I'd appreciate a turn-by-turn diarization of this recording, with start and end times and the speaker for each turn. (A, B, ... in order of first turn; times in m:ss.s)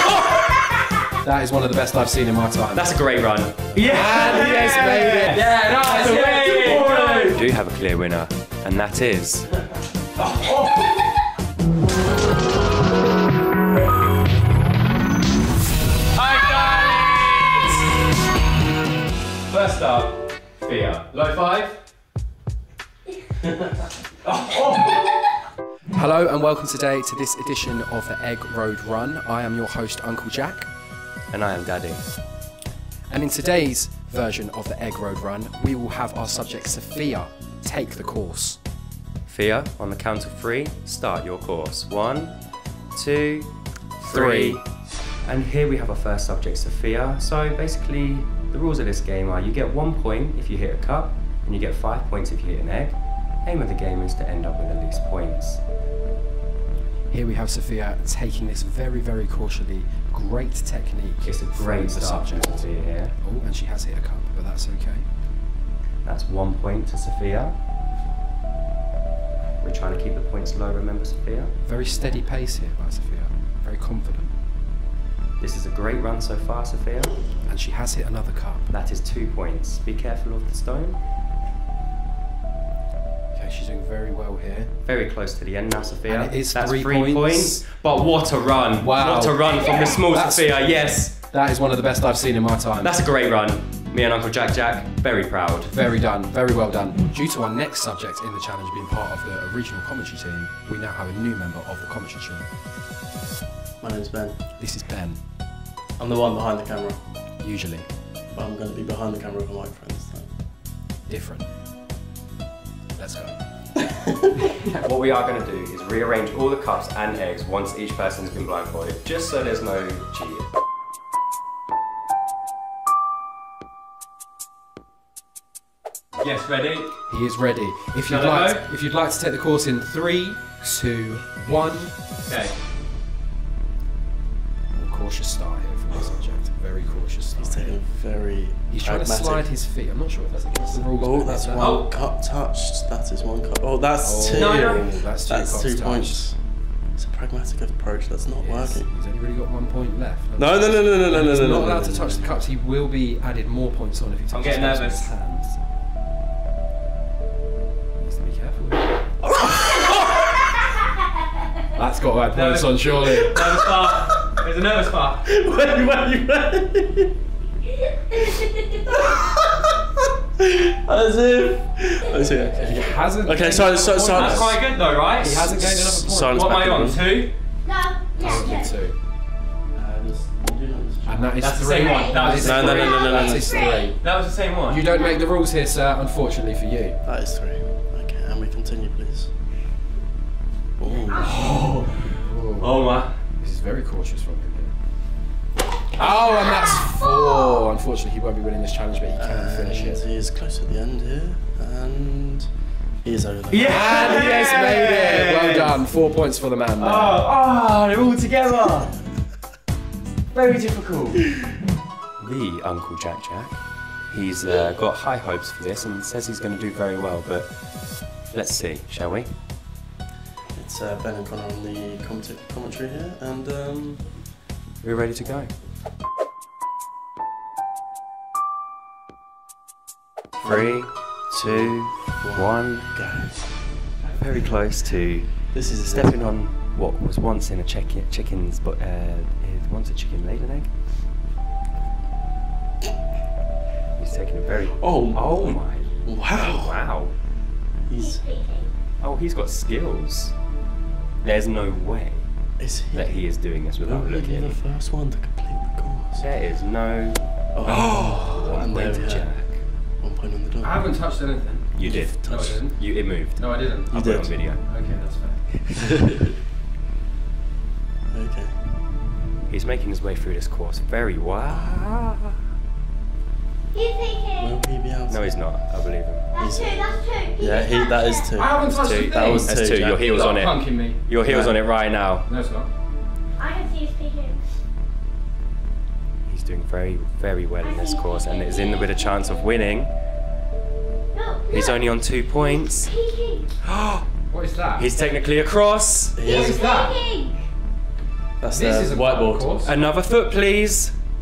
0:01.2-0:03.0 A
0:02.7-0:09.5 B
0:03.8-0:04.1 C
0:03.8-0:07.4 A
0:10.3-0:10.8 B
0:16.1-0:17.7 B
0:19.5-0:21.8 B
0:24.2-0:25.1 B
0:25.9-0:30.7 A
0:31.3-0:32.0 B
0:33.1-0:38.6 A
0:39.3-0:42.3 B
0:42.9-0:43.5 B
0:44.0-0:44.6 B
0:44.0-0:44.6 A
0:45.2-0:55.6 B
0:57.1-1:05.0 A
1:01.2-1:03.1 B
1:06.0-1:07.6 B
1:09.6-1:11.5 B
1:11.6-1:14.3 A
1:15.4-1:17.1 B
1:17.5-1:18.7 A
1:18.7-1:21.0 B
1:23.3-1:24.7 A
1:24.8-1:31.2 B
1:26.1-1:27.6 A
1:28.8-1:32.9 A
1:32.8-1:35.7 B
1:35.6-1:42.5 A
1:43.8-1:44.4 C
1:44.6-1:45.2 A
1:46.0-1:47.0 C
1:47.4-1:47.8 A
1:48.3-1:50.3 C
1:51.1-1:51.4 A
1:52.9-1:53.4 A
1:54.7-2:00.5 B
2:06.2-2:07.0 B
2:07.1-2:11.9 A
2:08.0-2:08.6 B
2:12.3-2:12.6 B
2:14.7-2:17.8 A
2:17.4-2:19.5 C
2:18.7-2:21.7 A
2:20.6-2:26.4 C
2:21.6-2:21.9 B
2:24.0-2:26.3 A
2:24.3-2:24.8 B
2:27.0-2:28.9 C
2:28.4-2:35.6 A
2:30.4-2:32.3 C
2:34.3-2:35.1 B
2:38.0-2:38.9 A
2:41.7-2:43.4 A
2:42.3-2:45.2 B
2:45.2-2:47.1 C
2:48.1-2:49.7 C
2:50.4-2:54.6 C
2:52.6-2:54.5 A
2:54.0-2:57.3 B
2:55.2-2:56.4 A
2:55.7-2:57.0 C
2:57.6-2:58.7 D
2:58.2-2:58.9 A
2:59.7-3:01.2 C
3:01.0-3:04.0 A
3:01.4-3:04.8 B
3:01.7-3:03.9 D
3:02.4-3:03.6 C
3:04.6-3:07.0 A
3:04.9-3:05.2 D
3:07.0-3:09.3 C
3:10.8-3:11.5 C
3:10.8-3:11.5 D
3:11.1-3:13.2 B
3:12.2-3:14.7 A
3:15.9-3:20.0 A
3:16.5-3:17.5 D
3:19.2-3:22.5 C
3:23.0-3:24.2 C
3:23.5-3:25.7 B
3:23.6-3:27.2 A
3:26.8-3:28.9 B
3:30.3-3:31.3 B
3:32.2-3:37.5 B
3:38.3-3:39.3 B
3:40.5-3:44.0 C
3:44.8-3:45.5 B
3:50.4-3:53.4 C
3:50.4-3:52.9 B
3:54.0-4:00.7 B
3:55.5-3:56.4 C
4:04.0-4:07.1 B
4:04.7-4:06.8 C
4:07.9-4:08.2 C
4:08.0-4:08.7 D
4:09.0-4:10.3 B
4:11.2-4:12.3 B
4:12.6-4:16.3 C
4:12.9-4:14.6 B
4:16.2-4:19.6 B
4:17.5-4:19.3 C
4:17.7-4:18.3 A
4:20.0-4:20.9 C
4:20.6-4:22.8 A
4:21.8-4:24.6 B
4:21.8-4:22.6 C
4:23.4-4:25.8 A
4:23.9-4:24.4 C
4:28.1-4:28.6 C
4:29.5-4:32.3 B
4:33.7-4:34.6 D
4:34.4-4:35.3 C
4:35.1-4:36.2 B
4:36.3-4:38.3 D
4:36.4-4:40.2 C
4:38.4-4:41.0 A
4:38.7-4:42.3 B
4:41.2-4:41.6 C
4:42.3-4:42.7 A
4:43.4-4:44.4 D
4:46.3-4:49.9 B
4:47.6-4:49.5 D
4:51.1-4:51.8 D
4:51.5-4:52.9 B
4:52.4-4:53.5 D
4:53.6-4:54.0 B
4:54.3-4:54.9 A
4:54.8-4:56.2 B
4:56.1-4:56.7 C
4:56.2-4:57.4 D
4:56.2-4:57.0 A
4:58.4-4:59.5 C
4:58.5-4:59.8 A
4:59.6-5:00.9 B